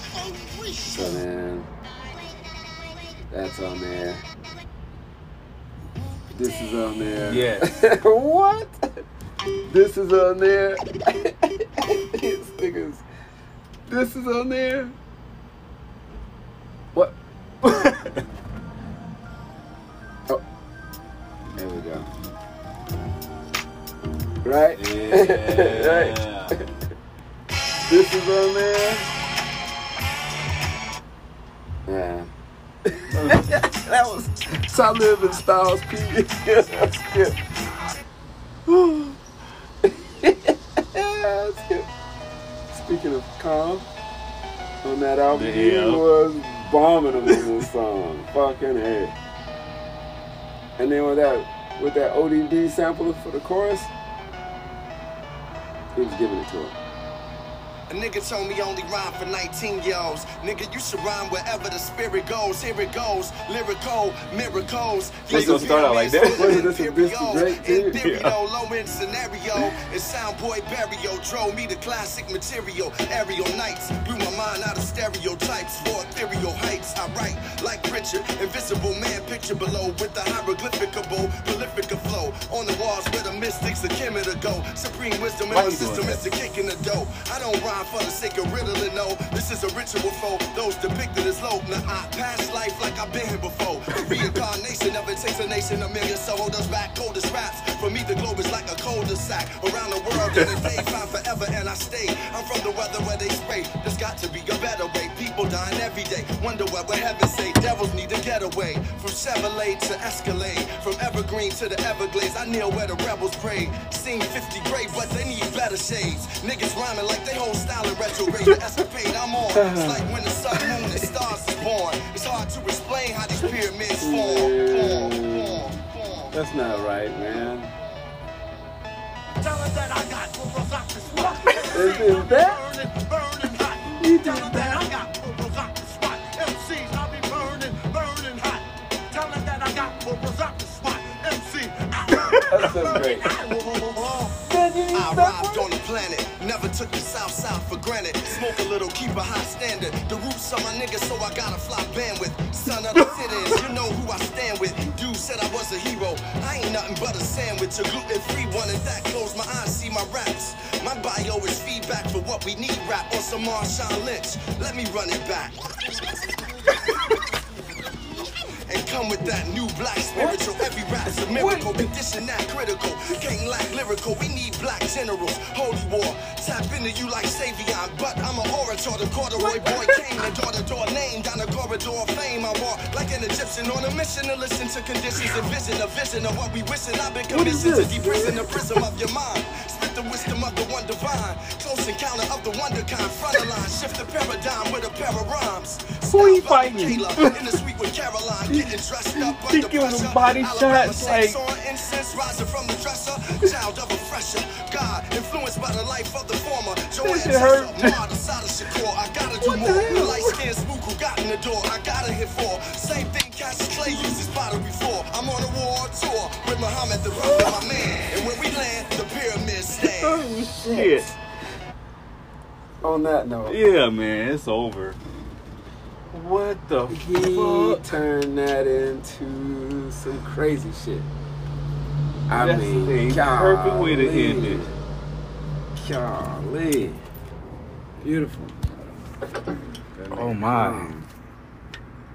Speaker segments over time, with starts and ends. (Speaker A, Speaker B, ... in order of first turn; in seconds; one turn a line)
Speaker A: 0.4-0.8
Speaker B: 0.9-1.7
Speaker B: 3.3-4.2
Speaker B: 6.3-8.8
Speaker C: 7.2-7.8
Speaker B: 9.7-13.0
Speaker B: 13.9-14.9
Speaker B: 16.9-18.0
Speaker C: 17.8-18.1
Speaker B: 21.6-22.1
Speaker B: 24.4-26.6
Speaker C: 24.8-26.6
Speaker B: 27.9-29.1
Speaker B: 31.9-32.3
Speaker B: 32.9-37.4
Speaker C: 33.1-33.5
Speaker C: 38.7-39.1
Speaker B: 39.8-41.9
Speaker B: 42.7-43.9
Speaker B: 44.8-49.1
Speaker C: 45.3-46.1
Speaker B: 50.8-53.9
Speaker B: 56.0-56.8
Speaker D: 57.9-126.3
Speaker C: 65.3-66.7
Speaker B: 65.3-68.0
Speaker C: 68.0-68.3
Speaker C: 85.5-86.3
Speaker B: 119.5-121.0
Speaker B: 124.0-125.7
Speaker B: 126.3-127.7
Speaker A: 129.4-144.4
Speaker B: 131.7-132.7
Speaker B: 134.0-134.8
Speaker B: 142.3-143.3
Speaker B: 144.3-145.4
Speaker D: 144.9-165.9
Speaker D: 168.7-220.2
Speaker C: 171.3-171.7
Speaker C: 187.3-188.6
Speaker C: 196.1-197.4
Speaker C: 198.5-201.4
Speaker C: 207.0-208.0
Speaker C: 209.4-210.4
Speaker C: 213.7-214.2
Speaker C: 217.2-218.3
Speaker C: 219.8-221.1
Speaker B: 220.6-221.2
Speaker B: 222.8-223.6
Speaker C: 223.5-225.0
Speaker C: 226.1-228.0
Speaker B: 226.9-231.1
Speaker B: 232.3-234.8
Speaker C: 232.4-234.6
Speaker B: 235.7-237.0
Speaker B: 238.0-238.8
Speaker B: 239.9-241.1
Speaker C: 240.1-240.9